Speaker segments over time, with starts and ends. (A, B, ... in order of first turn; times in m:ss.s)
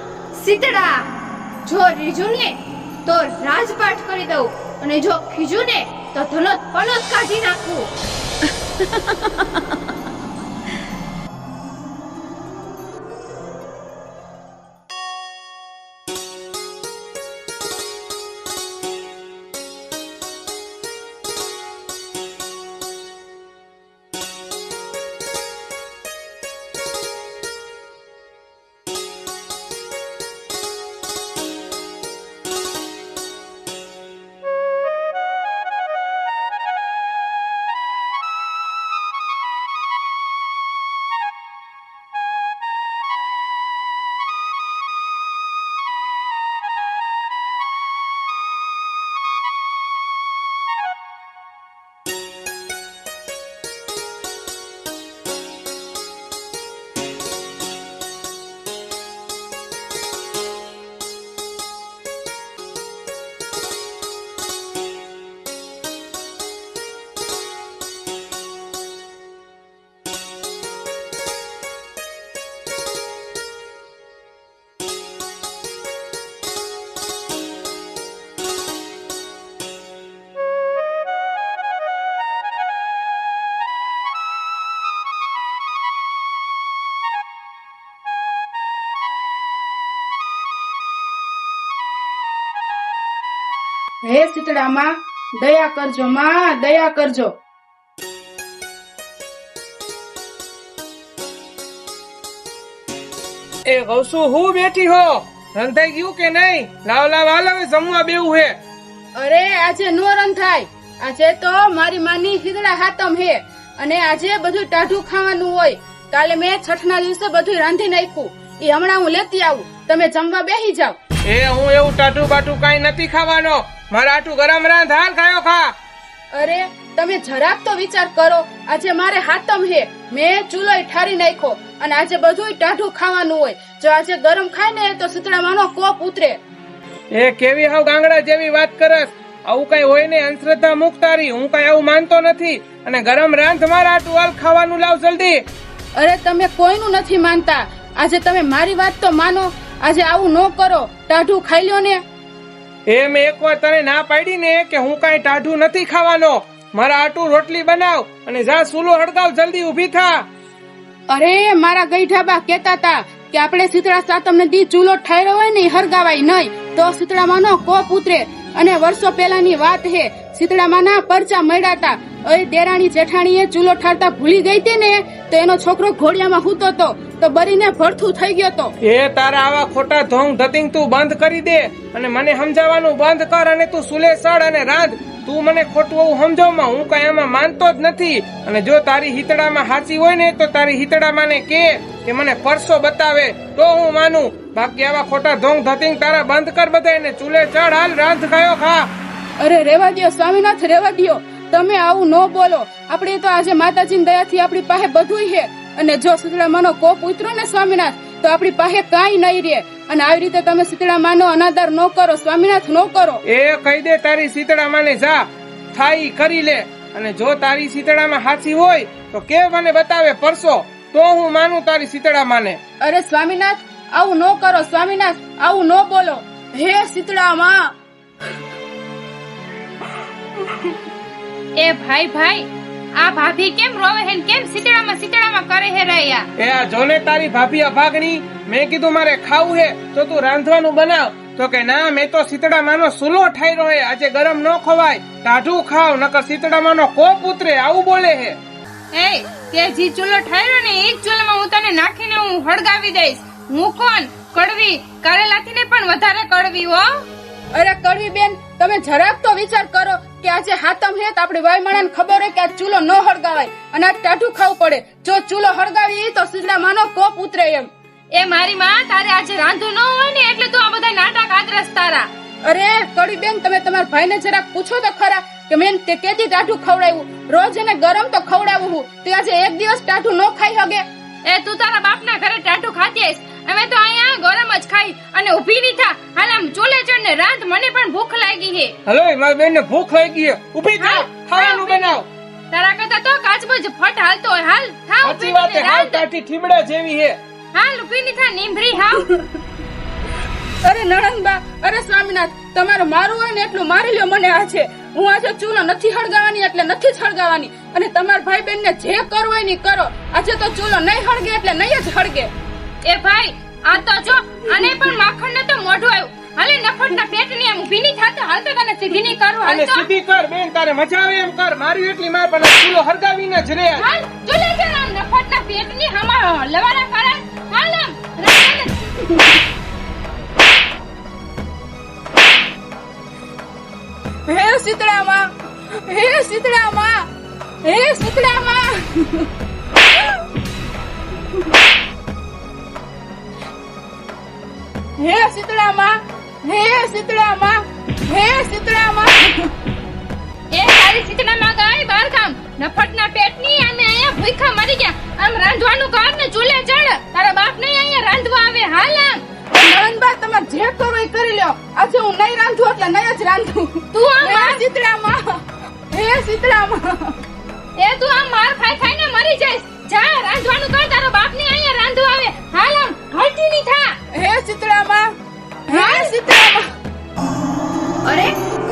0:00.3-0:01.0 A
0:01.6-0:07.9 A
1:34.0-1:37.4 B
1:43.7-1:48.6 C
1:49.2-2:01.0 B
2:01.3-2:05.7 C
2:06.3-2:16.4 B
2:17.1-2:25.4 C
2:26.0-2:32.0 B
2:32.9-2:40.2 C
2:41.1-2:58.7 B
2:58.8-3:18.9 C
3:19.4-3:33.2 B
3:33.2-3:42.6 C
3:42.8-3:47.7 B
3:51.6-3:52.5 D
3:53.0-3:56.3 D
3:56.4-4:08.4 C
4:08.9-4:16.9 D
4:17.5-4:27.7 B
4:28.1-4:32.1 D
4:32.4-4:40.8 B
4:41.2-4:48.7 D
4:48.9-4:52.0 C
4:50.8-4:51.9 D
4:52.5-4:56.0 D
4:55.0-4:57.2 C
4:57.5-4:59.0 D
5:00.6-5:12.3 B
5:12.8-5:19.9 D
5:19.4-5:23.8 C
5:23.8-5:29.0 D
5:34.3-5:35.3 B
5:35.9-5:37.1 B
5:37.6-5:39.3 B
5:45.0-5:49.5 B
5:50.5-5:59.2 D
5:59.5-6:07.2 B
6:03.9-6:04.6 D
6:07.8-6:14.0 D
6:14.1-6:15.1 B
6:15.7-6:16.7 B
6:15.7-6:16.1 D
6:18.0-6:18.3 A